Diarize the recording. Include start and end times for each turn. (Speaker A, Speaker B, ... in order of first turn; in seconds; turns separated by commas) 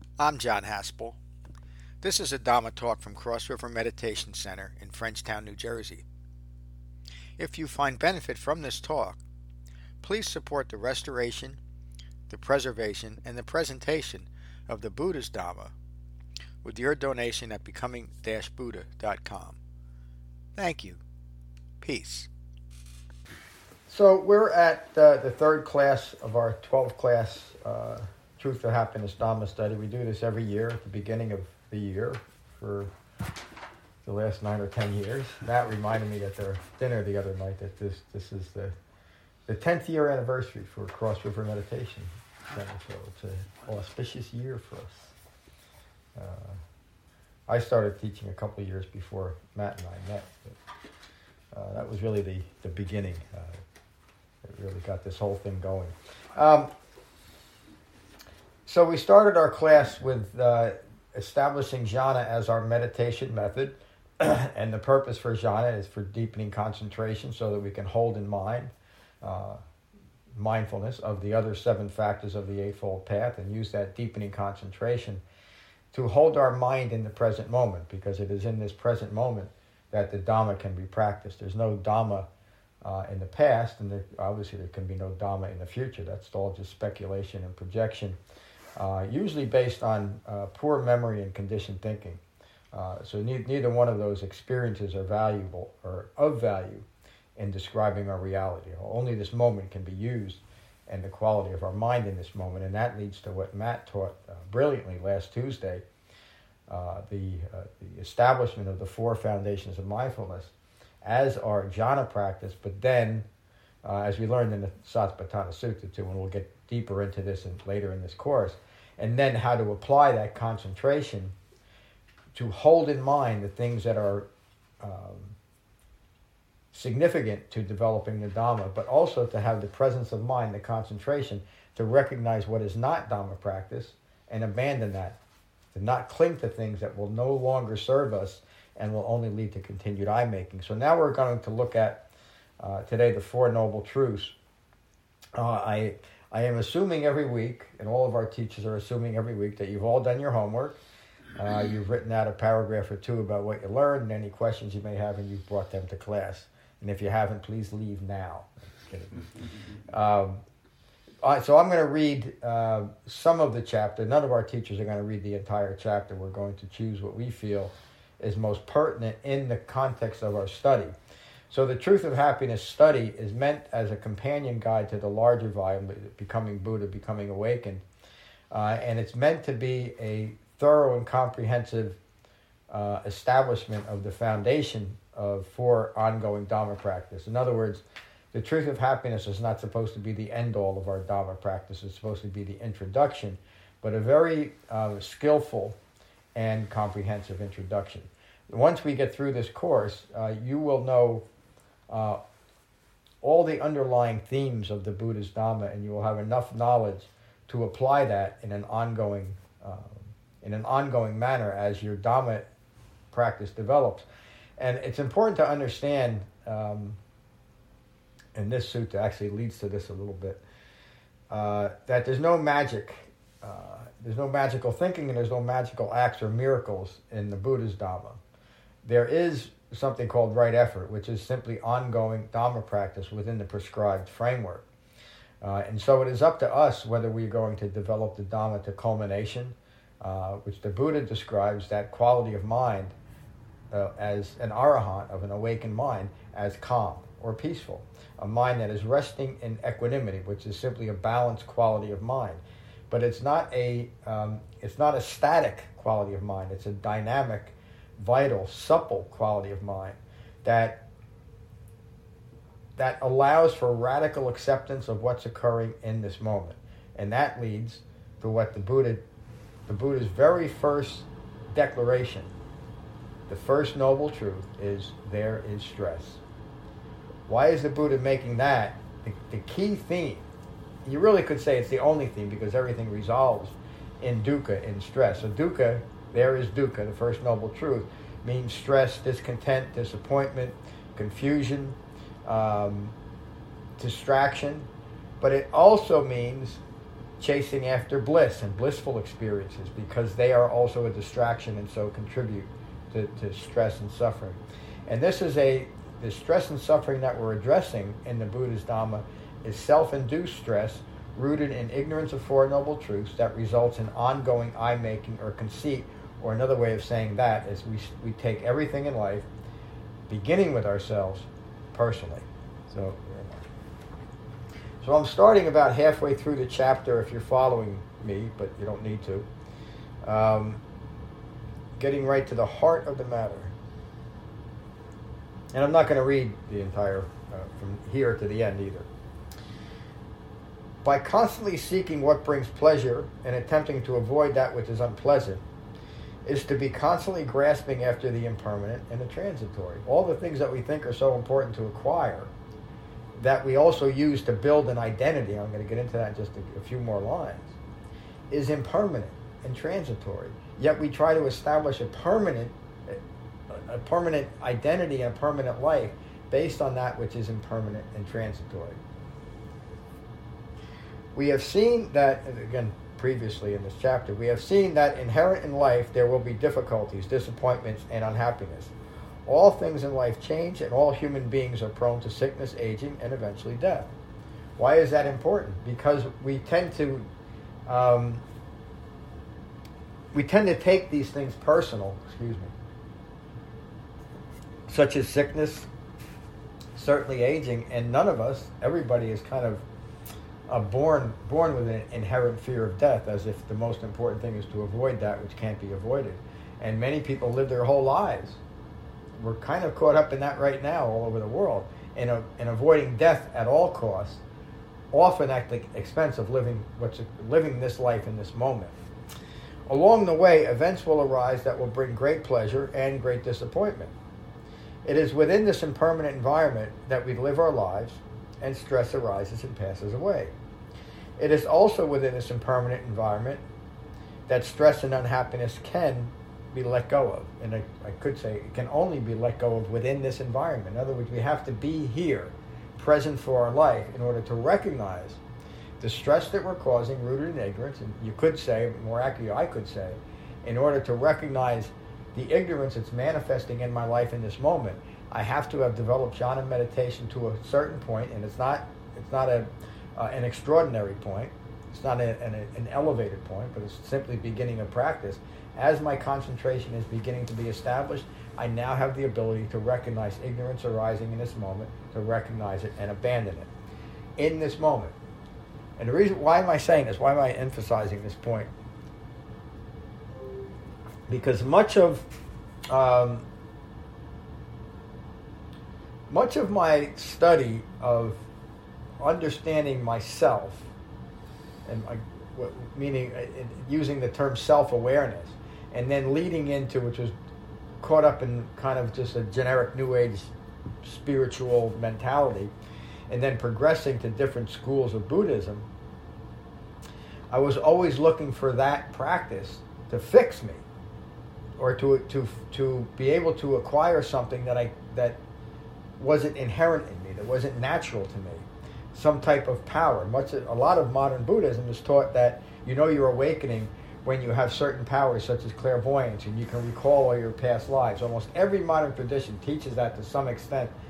Speaker A: 0.2-1.2, Speaker A: 2.0-6.0, Speaker A: 7.4-9.2, Speaker A: 10.0-11.6, Speaker A: 12.3-15.7, Speaker A: 16.6-19.6, Speaker A: 20.6-21.0, Speaker A: 21.8-22.3, Speaker A: 23.9-32.9, Speaker A: 34.0-38.8, Speaker A: 39.5-45.1, Speaker A: 46.2-46.6, Speaker A: 47.5-50.5, Speaker A: 51.5-53.6, Speaker A: 54.4-56.7, Speaker A: 58.7-69.6, Speaker A: 70.3-75.2, Speaker A: 75.9-82.3, Speaker A: 82.8-88.2, Speaker A: 88.8-92.2, Speaker A: 92.7-96.9, Speaker A: 97.4-105.8, Speaker A: 106.7-110.5, Speaker A: 111.0-113.3, Speaker A: 113.8-121.3, Speaker A: 122.3-124.3, Speaker A: 124.8-125.3, Speaker A: 126.7-135.2, Speaker A: 135.7-142.1, Speaker A: 142.6-144.3, Speaker A: 145.3-150.8, Speaker A: 151.4-159.3, Speaker A: 159.9-160.4, Speaker A: 161.2-170.9, Speaker A: 171.5-177.8, Speaker A: 178.5-182.0, Speaker A: 182.7-195.8, Speaker A: 196.3-201.2, Speaker A: 201.9-202.2, Speaker A: 203.2-212.5, Speaker A: 213.1-214.1, Speaker A: 214.6-217.0, Speaker A: 218.3-220.4, Speaker A: 221.3-228.2, Speaker A: 228.8-234.7, Speaker A: 235.4-242.9, Speaker A: 243.7-260.9, Speaker A: 262.8-269.0, Speaker A: 269.7-272.3, Speaker A: 273.3-276.2, Speaker A: 277.3-280.3, Speaker A: 280.9-292.9, Speaker A: 293.8-294.7, Speaker A: 295.2-296.6, Speaker A: 297.2-319.3, Speaker A: 320.1-323.4, Speaker A: 324.8-329.3, Speaker A: 330.0-330.6, Speaker A: 331.8-333.5, Speaker A: 335.5-338.9, Speaker A: 340.8-345.4, Speaker A: 346.2-352.3, Speaker A: 353.2-357.5, Speaker A: 358.3-368.8, Speaker A: 371.1-378.7, Speaker A: 379.3-383.9, Speaker A: 384.6-387.1, Speaker A: 387.7-388.2, Speaker A: 390.1-392.5, Speaker A: 394.7-395.7, Speaker A: 396.8-399.6, Speaker A: 400.5-408.4, Speaker A: 409.2-414.2, Speaker A: 414.9-418.8, Speaker A: 419.7-423.9, Speaker A: 424.9-430.3, Speaker A: 431.2-433.4, Speaker A: 434.3-445.2, Speaker A: 445.8-473.5, Speaker A: 474.2-474.9, Speaker A: 475.8-478.5, Speaker A: 481.1-482.1, Speaker A: 482.7-483.2, Speaker A: 486.1-488.2, Speaker A: 489.0-490.7, Speaker A: 491.7-497.1, Speaker A: 497.8-500.3, Speaker A: 500.8-502.5, Speaker A: 503.1-505.7, Speaker A: 507.3-510.6, Speaker A: 511.6-515.2, Speaker A: 516.0-530.7